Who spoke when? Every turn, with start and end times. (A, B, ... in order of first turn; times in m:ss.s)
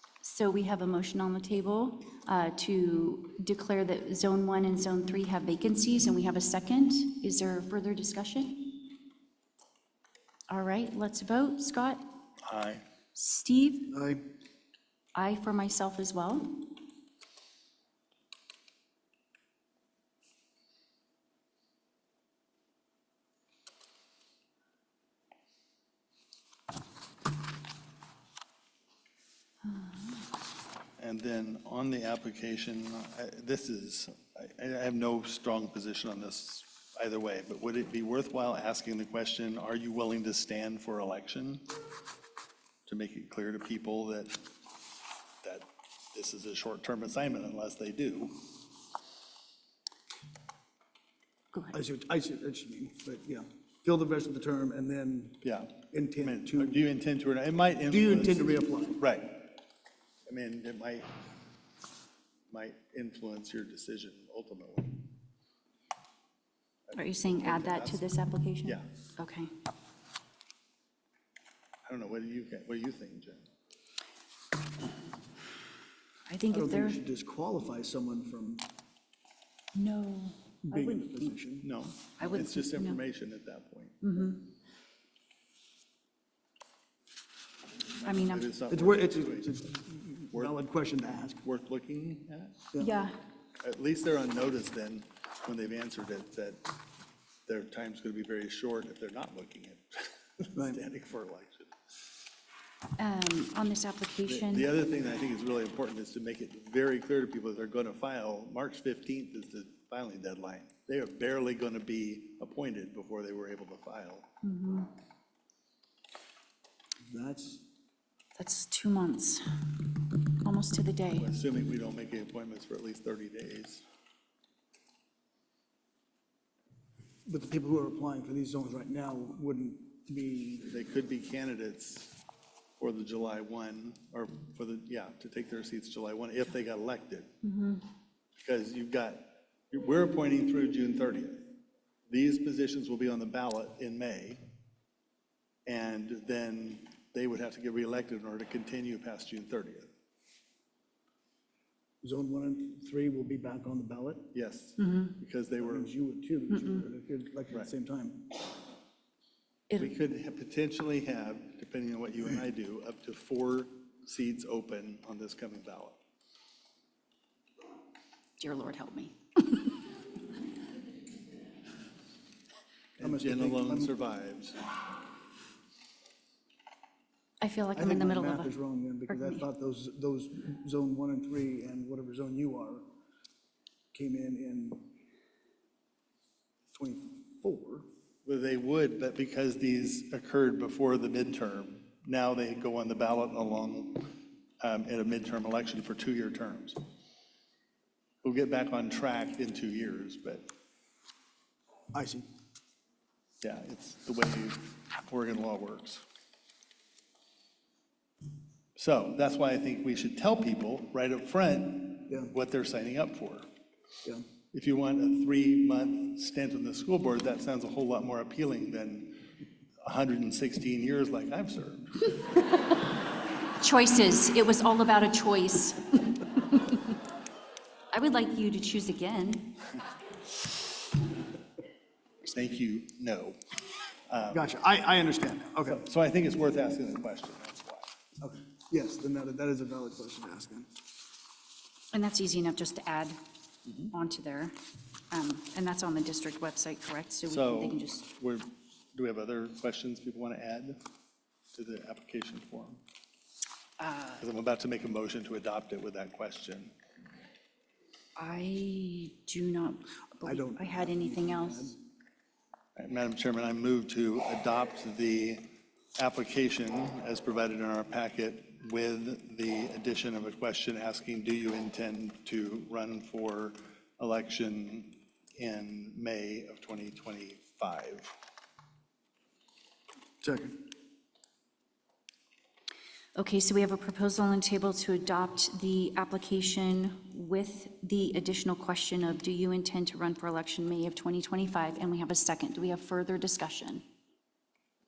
0:00.2-0:08.9 A
0:10.5-0:12.0 A
0:12.4-0:12.8 B
0:13.1-0:13.9 A
0:13.9-0:14.2 C
0:15.1-0:16.7 A
0:29.6-0:30.2 A
0:31.0-0:41.7 B
0:42.9-0:44.4 B
0:45.4-0:48.4 B
0:51.7-0:56.8 C
0:55.4-0:59.5 B
0:57.9-0:59.0 C
1:00.3-1:01.2 B
1:02.5-1:05.0 B
1:06.9-1:08.0 B
1:06.9-1:09.5 A
1:11.8-1:13.4 B
1:16.3-1:17.0 A
1:16.5-1:18.7 C
1:19.7-1:21.3 A
1:20.7-1:21.7 C
1:21.6-1:24.0 B
1:22.2-1:23.0 A
1:24.0-1:24.5 A
1:28.0-1:28.5 A
1:28.1-1:29.6 B
1:28.7-1:31.4 C
1:31.4-1:32.6 B
1:32.8-1:33.2 A
1:33.6-1:36.7 B
1:37.5-1:41.7 B
1:43.0-1:44.7 A
1:44.3-1:54.3 B
1:54.4-1:54.9 A
1:57.0-1:57.6 C
1:58.4-1:59.4 A
2:00.4-2:01.3 A
2:01.2-2:03.8 B
2:07.2-2:10.7 C
2:10.7-2:12.1 B
2:12.8-2:17.3 B
2:17.4-2:17.8 A
2:18.4-2:21.6 B
2:22.1-2:24.4 B
2:25.6-2:29.9 B
2:32.0-2:34.3 C
2:34.3-2:35.9 B
2:34.8-2:35.1 A
2:35.6-2:38.3 C
2:39.8-2:46.0 B
2:48.4-2:49.8 A
2:53.0-2:54.6 B
2:53.0-2:53.9 C
2:57.4-2:58.5 A
2:57.7-3:02.8 C
2:59.1-2:59.4 A
3:03.9-3:04.9 C
3:06.7-3:07.8 C
3:08.2-3:16.8 B
3:18.2-3:20.5 B
3:21.9-3:22.3 C
3:23.4-3:26.0 B
3:28.8-3:33.5 B
3:34.5-3:39.3 B
3:39.8-3:42.1 B
3:43.6-3:46.9 A
3:47.9-3:49.6 A
3:52.2-3:53.4 B
3:54.1-3:54.5 B
3:54.3-3:55.8 C
3:55.7-3:57.9 B
3:58.2-4:00.7 C
4:01.9-4:03.2 A
4:03.9-4:04.6 A
4:05.1-4:08.1 A
4:07.3-4:10.8 B
4:11.5-4:12.8 B
4:13.8-4:14.2 A
4:14.2-4:16.7 B
4:18.2-4:21.7 A
4:20.2-4:21.8 C
4:22.8-4:38.1 B
4:40.2-4:40.6 C
4:43.1-4:53.8 A